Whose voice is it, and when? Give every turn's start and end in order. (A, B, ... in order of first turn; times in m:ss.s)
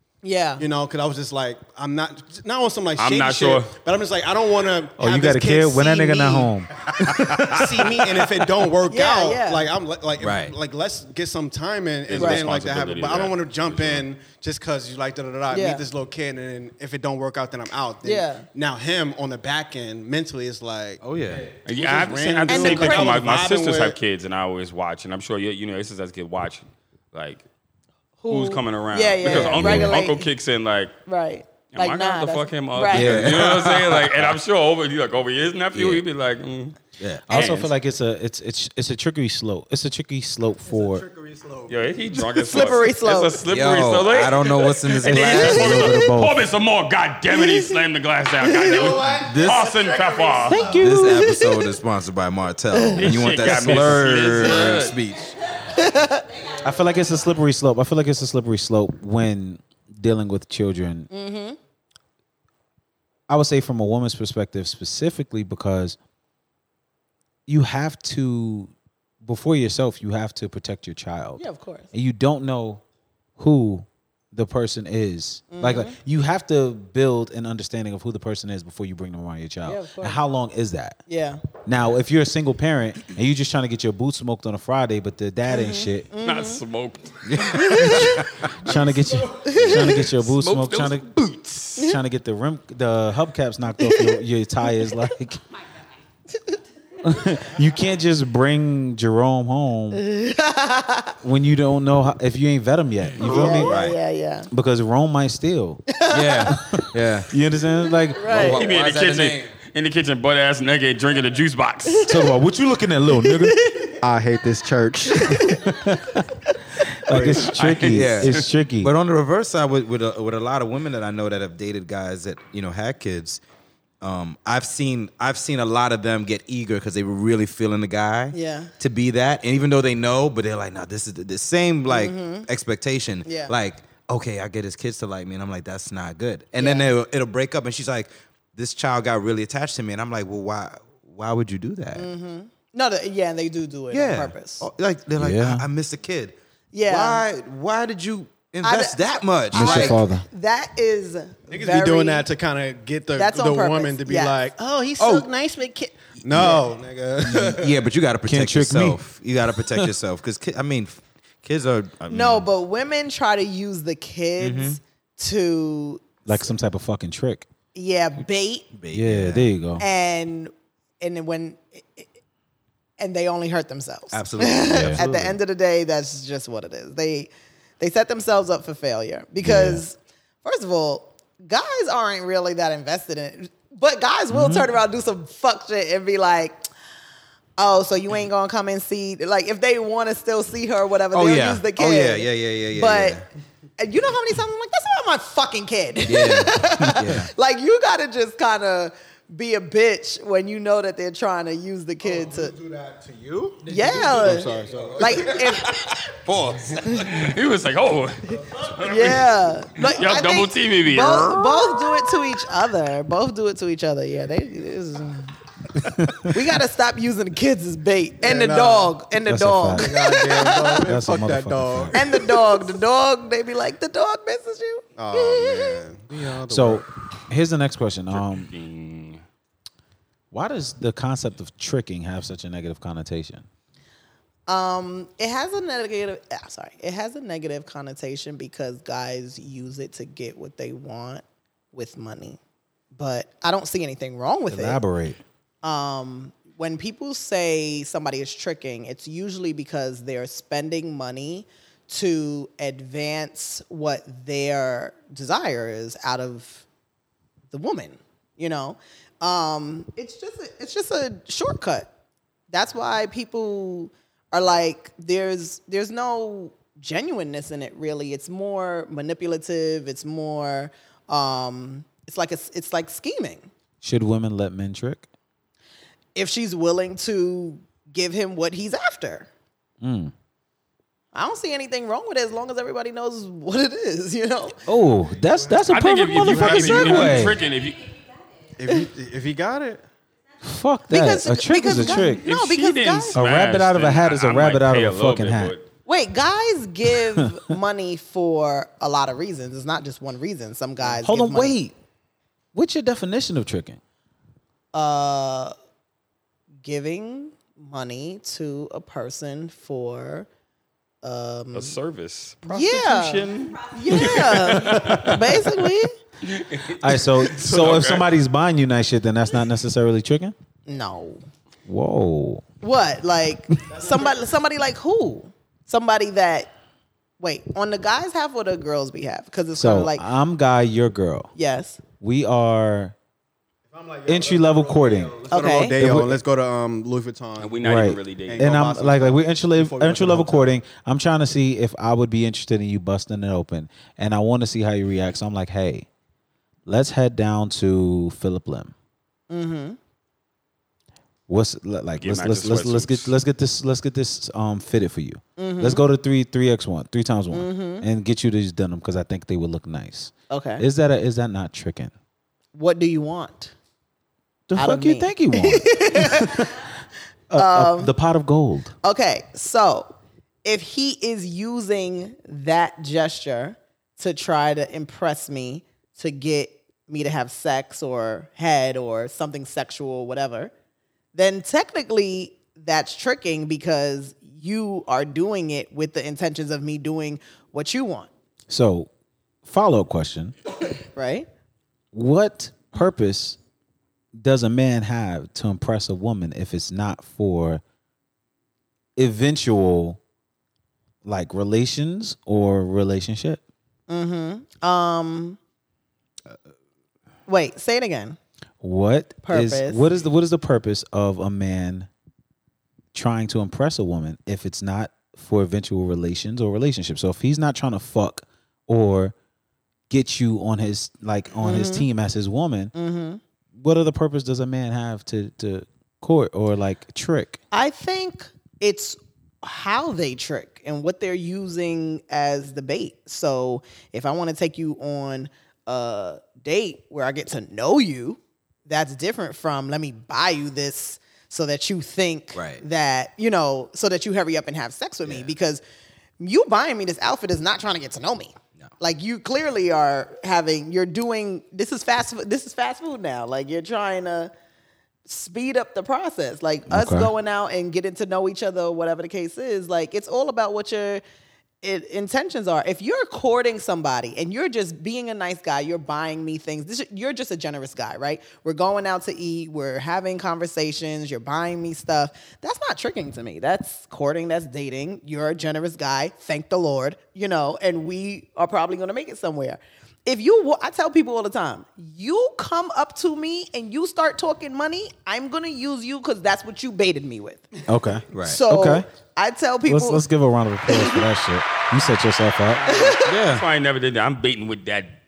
0:00.2-0:00.6 A
0:00.6-0:05.8 B
0:03.0-0:03.7 C
0:05.0-0:07.8 D
0:05.5-0:06.5 A
0:07.0-0:07.8 E
0:07.5-0:21.0 B
0:08.9-0:09.7 A
0:10.2-0:10.5 E
0:12.1-0:14.0 C
0:12.2-0:12.4 A
0:15.5-0:15.8 A
0:18.0-0:18.5 A
0:21.0-0:21.5 E
0:21.6-0:24.0 B
0:21.6-0:27.4 C
0:22.5-0:23.2 A
0:28.2-0:30.3 A
0:28.3-0:30.9 C
0:29.3-0:29.8 E
0:29.6-0:29.9 D
0:31.0-0:33.2 A
0:31.7-0:36.8 C
0:32.9-0:34.4 E
0:35.7-0:36.0 E
0:37.0-0:37.6 E
0:37.3-0:41.0 D
0:37.3-0:37.7 C
0:41.0-0:41.7 B
0:41.7-0:50.7 C
0:42.4-0:43.4 A
0:43.5-0:45.8 E
0:45.1-0:46.4 D
0:47.3-0:47.8 A
0:48.4-0:49.0 A
0:49.2-0:49.7 E
0:50.4-0:51.4 D
0:50.6-0:55.4 E
0:50.7-0:51.7 A
0:52.7-0:53.1 A
0:53.0-0:55.0 C
0:55.7-0:56.3 A
0:56.6-1:01.1 D
1:01.1-1:01.6 A
1:03.3-1:06.0 D
1:07.5-1:08.7 D
1:09.2-1:12.8 D
1:11.4-1:11.9 A
1:13.4-1:21.0 D
1:15.5-1:16.0 A
1:19.6-1:20.2 A
1:21.1-1:21.4 A
1:21.6-1:26.1 D
1:25.5-1:26.6 A
1:26.2-1:27.9 C
1:27.2-1:28.5 E
1:27.5-1:28.3 A
1:27.8-1:31.1 D
1:29.3-1:30.0 A
1:29.6-1:31.8 C
1:31.8-1:35.4 D
1:33.8-1:35.0 A
1:37.0-1:40.0 D
1:39.9-1:41.2 A
1:41.2-1:43.8 D
1:43.2-1:44.0 E
1:43.2-1:44.5 A
1:44.5-1:45.8 D
1:45.9-1:46.8 A
1:46.1-1:47.3 E
1:46.6-1:48.5 D
1:48.1-1:48.6 A
1:48.2-1:49.5 E
1:48.3-1:52.1 C
1:51.9-1:52.2 A
1:52.1-1:53.6 D
1:53.2-1:54.0 A
1:54.0-1:55.6 B
1:55.1-1:55.7 A
1:55.6-1:56.2 D
1:56.9-1:58.9 D
1:57.1-2:03.4 E
1:57.4-1:58.5 C
2:04.0-2:22.1 E
2:08.3-2:08.7 A
2:11.9-2:12.5 A
2:13.2-2:13.5 A
2:16.6-2:16.9 A
2:21.9-2:24.7 A
2:23.9-2:26.3 E
2:25.2-2:25.7 D
2:26.7-2:27.2 A
2:26.9-2:30.0 E
2:28.6-2:32.3 A
2:29.5-2:30.2 D
2:31.5-2:35.2 B
2:33.2-2:36.6 A
2:36.2-2:37.8 B
2:37.2-2:42.5 E
2:38.2-2:39.0 D
2:39.6-2:39.9 D
2:42.1-2:46.5 A
2:44.4-2:44.8 E
2:46.2-2:47.5 D
2:47.7-2:48.7 A
2:48.7-2:49.5 E
2:48.9-2:49.8 D
2:49.8-2:52.1 A
2:53.0-3:06.6 A
2:54.1-2:55.4 E
2:54.7-2:55.1 D
2:59.4-2:59.8 D
3:07.6-3:13.2 A
3:11.1-3:13.2 E
3:13.8-3:22.6 A
3:16.0-3:17.3 E
3:16.8-3:17.2 D
3:22.0-3:25.9 B
3:23.6-3:25.9 A
3:26.2-3:26.8 E
3:26.8-3:31.6 C
3:28.6-3:35.4 A
3:35.8-3:36.3 D
3:36.1-3:40.9 A
3:38.2-3:38.9 B
3:39.2-3:40.0 D
3:39.7-3:42.6 B
3:40.7-3:41.9 D
3:41.9-3:45.8 A
3:45.0-3:46.8 B
3:46.4-3:48.5 D
3:48.1-3:49.2 C
3:50.3-3:53.4 D
3:54.5-4:02.4 A
4:02.9-4:04.8 A
4:04.5-4:05.2 D
4:05.6-4:16.6 A
4:17.5-4:21.9 A
4:22.5-4:33.5 A
4:33.8-4:35.1 D
4:36.1-4:39.3 A
4:39.8-4:40.1 D
4:41.1-4:44.6 A
4:44.7-4:47.4 D
4:45.2-4:45.6 B
4:45.7-4:47.9 C
4:46.2-4:47.2 B
4:48.6-4:49.8 B
4:50.4-4:52.2 D
4:50.9-4:53.2 A
4:51.8-4:55.6 C
4:53.1-4:55.5 D
4:55.8-5:01.5 A
4:56.9-4:57.5 D
5:01.0-5:01.7 D
5:02.5-5:03.8 D
5:04.7-5:05.5 A
5:06.6-5:10.3 A
5:11.0-5:11.8 A
5:11.5-5:15.4 C
5:12.4-5:15.9 A
5:14.6-5:15.2 D
5:16.2-5:18.1 C
5:16.8-5:20.3 D
5:20.6-5:21.2 A
5:21.6-5:22.4 D
5:22.6-5:26.5 A
5:27.2-5:30.0 A
5:29.5-5:31.3 D
5:31.3-5:31.8 A
5:32.0-5:32.9 D
5:33.7-5:40.5 B
5:34.0-5:36.2 D
5:35.3-5:35.8 A
5:37.4-5:38.5 C
5:37.6-5:45.9 D
5:46.6-5:48.7 D
5:49.3-5:49.8 A
5:51.3-6:01.9 D
5:52.0-5:53.1 C
5:55.4-5:55.8 A
5:57.3-5:57.8 A
6:00.3-6:00.6 A
6:02.5-6:03.5 A
6:04.5-6:06.5 D
6:04.6-6:06.6 A
6:07.3-6:08.7 D
6:07.3-6:07.9 A
6:08.8-6:20.5 A
6:21.1-6:28.1 A
6:28.5-6:28.9 D
6:29.4-6:30.4 D
6:30.9-6:31.3 A
6:31.9-6:33.4 D
6:34.2-6:37.6 D
6:39.0-6:40.0 D
6:41.0-6:43.4 D
6:43.9-6:45.4 A
6:47.3-6:48.2 A
6:48.6-6:51.9 D
6:49.2-6:49.9 A
6:52.9-6:59.1 D
6:59.9-7:02.7 D
7:01.4-7:01.9 A
7:02.7-7:03.2 A
7:03.5-7:07.4 D
7:07.5-7:25.6 A
7:22.3-7:22.6 E
7:25.0-7:25.3 E
7:26.2-7:34.3 A
7:35.0-7:41.0 A
7:36.7-7:37.1 D
7:41.6-8:07.5 A
8:07.7-8:08.9 D
8:08.1-8:08.4 E
8:08.2-8:10.0 A
8:09.6-8:12.7 D
8:10.7-8:11.0 A
8:12.6-8:13.1 A
8:12.8-8:15.0 C
8:13.0-8:13.4 E